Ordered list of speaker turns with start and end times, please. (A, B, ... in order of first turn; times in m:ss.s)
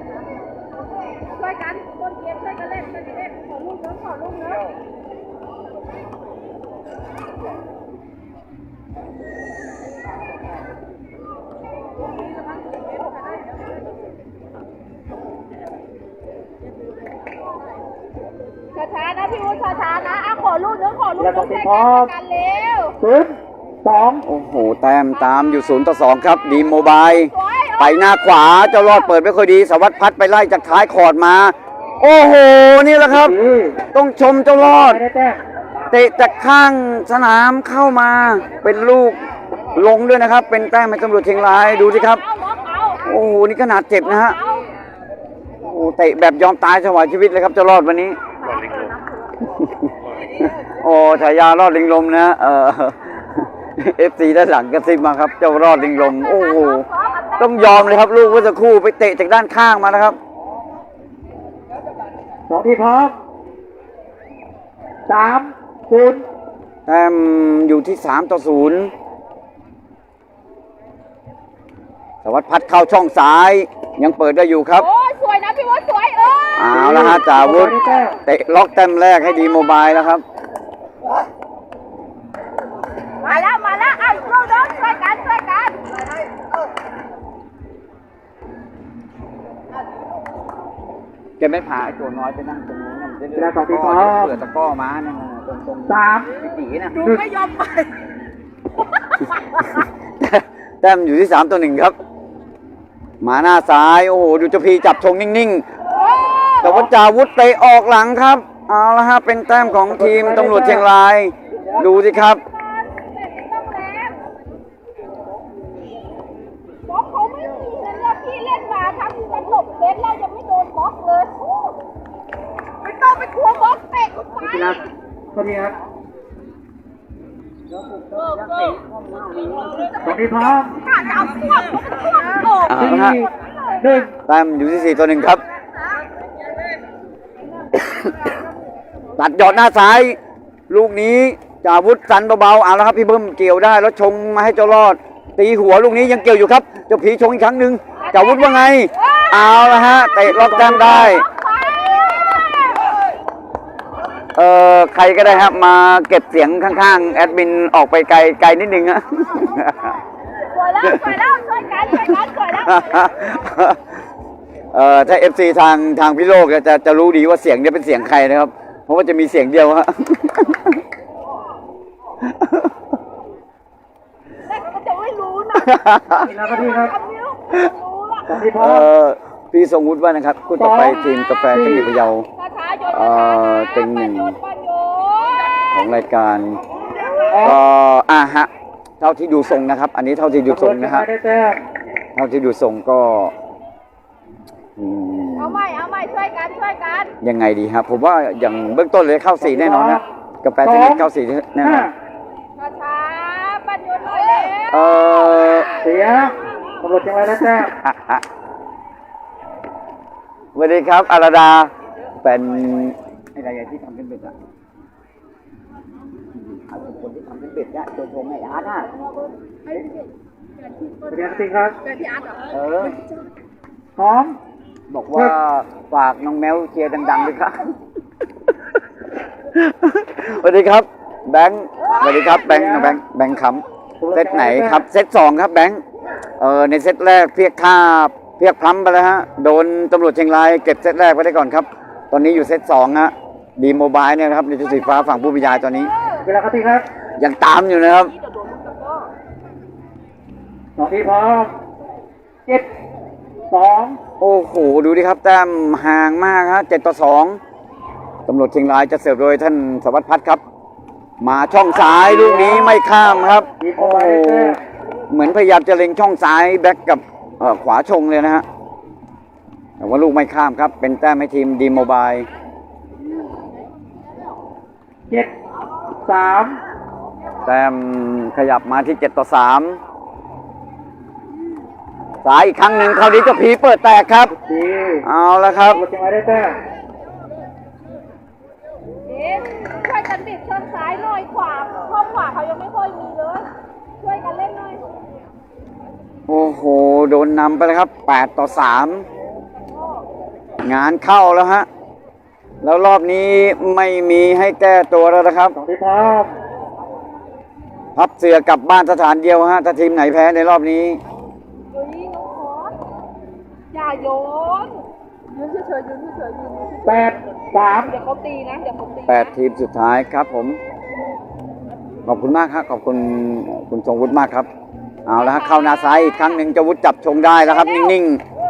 0:01.3-0:04.7 A
0:18.7-0:22.9 A
0:21.2-0:22.1 B
0:23.0-0:24.2 B
0:24.2-0:33.4 C
0:27.0-0:29.1 A
0:33.1-0:33.8 B
0:33.9-0:35.0 C
0:34.6-0:35.4 B
0:35.9-0:39.2 C
0:39.7-0:42.2 C
0:41.4-0:43.1 A
0:43.0-0:44.4 C
0:44.0-0:44.6 A
0:45.6-0:48.2 C
0:48.4-0:49.3 A
0:49.4-0:56.8 C
0:55.9-0:58.1 A
0:57.4-1:00.2 C
1:02.5-1:03.2 B
1:05.1-1:06.2 B
1:06.9-1:08.9 C
1:12.2-1:14.8 C
1:14.8-1:16.8 A
1:16.6-1:20.2 C
1:16.7-1:18.2 B
1:23.2-1:25.8 A
1:31.4-1:37.0 C
1:33.4-1:34.3 B
1:35.9-1:36.3 B
1:36.9-1:37.9 A
1:37.0-1:37.2 B
1:39.6-1:42.0 C
1:43.2-1:45.6 C
1:46.0-1:46.6 A
1:46.6-1:52.4 C
1:46.6-1:46.9 B
1:49.8-1:50.9 B
1:51.5-1:51.9 A
1:52.4-1:54.2 A
1:56.8-2:01.7 A
2:02.8-2:04.7 A
2:04.4-2:04.8 C
2:05.3-2:05.7 B
2:08.4-2:08.8 A
2:10.0-2:10.8 B
2:10.8-2:12.7 A
2:12.7-2:13.2 C
2:12.7-2:14.1 B
2:14.3-2:15.4 C
2:17.8-2:18.1 C
2:19.2-2:20.2 C
2:20.7-2:31.2 C
2:28.0-2:30.0 A
2:30.3-2:31.2 B
2:30.7-2:32.6 A
2:34.4-2:40.0 C
2:40.5-2:43.1 A
2:40.8-2:41.1 C
2:42.6-2:43.8 C
2:44.7-2:50.8 C
2:52.2-2:52.7 C
2:54.5-2:58.3 A
2:55.6-2:56.3 C
2:56.2-2:56.9 B
2:58.3-2:58.9 B
2:58.6-3:02.2 C
3:00.6-3:01.9 B
3:02.4-3:05.5 A
3:02.9-3:04.4 C
3:05.7-3:06.6 C
3:07.3-3:07.6 B
3:07.4-3:11.0 C
3:10.5-3:11.6 B
3:12.2-3:13.3 C
3:14.8-3:15.6 C
3:15.4-3:17.1 A
3:17.2-3:21.9 C
3:19.4-3:20.0 B
3:20.6-3:21.1 B
3:21.6-3:21.9 B
3:22.6-3:25.0 A
3:24.7-3:25.7 C
3:25.8-3:27.7 B
3:27.6-3:28.2 C
3:30.5-3:31.7 C
3:32.2-3:34.3 C
3:36.7-3:38.9 C
3:41.1-3:41.8 B
3:42.5-3:43.0 C
3:44.0-3:44.4 B
3:44.9-3:47.7 C
3:49.5-3:55.8 C
3:52.4-3:53.0 B
3:54.0-3:54.8 B
3:56.4-4:05.9 C
4:06.2-4:06.8 B
4:07.2-4:08.1 C
4:08.2-4:09.1 A
4:10.8-4:11.5 B
4:13.5-4:14.0 B
4:14.2-4:17.4 C
4:18.2-4:20.4 C
4:21.2-4:24.6 C
4:22.0-4:22.7 B
4:23.6-4:24.6 B
4:25.1-4:28.4 C
4:29.8-4:32.3 C
4:36.0-4:36.6 B
4:37.4-4:39.8 C
4:42.2-4:44.3 C
4:44.3-4:45.0 B
4:45.0-4:45.8 C
4:45.6-4:46.6 B
4:49.1-4:53.4 A
4:54.0-4:54.8 A
4:56.3-4:59.0 C
5:00.6-5:01.7 C
5:02.6-5:05.6 C
5:05.5-5:06.3 B
5:08.0-5:11.0 C
5:11.7-5:12.7 A
5:13.7-5:17.1 A
5:16.8-5:17.9 B
5:17.8-5:19.3 A
5:19.1-5:20.6 C
5:22.0-5:24.5 C
5:25.0-5:28.2 C
5:25.2-5:26.3 A
5:27.5-5:27.9 A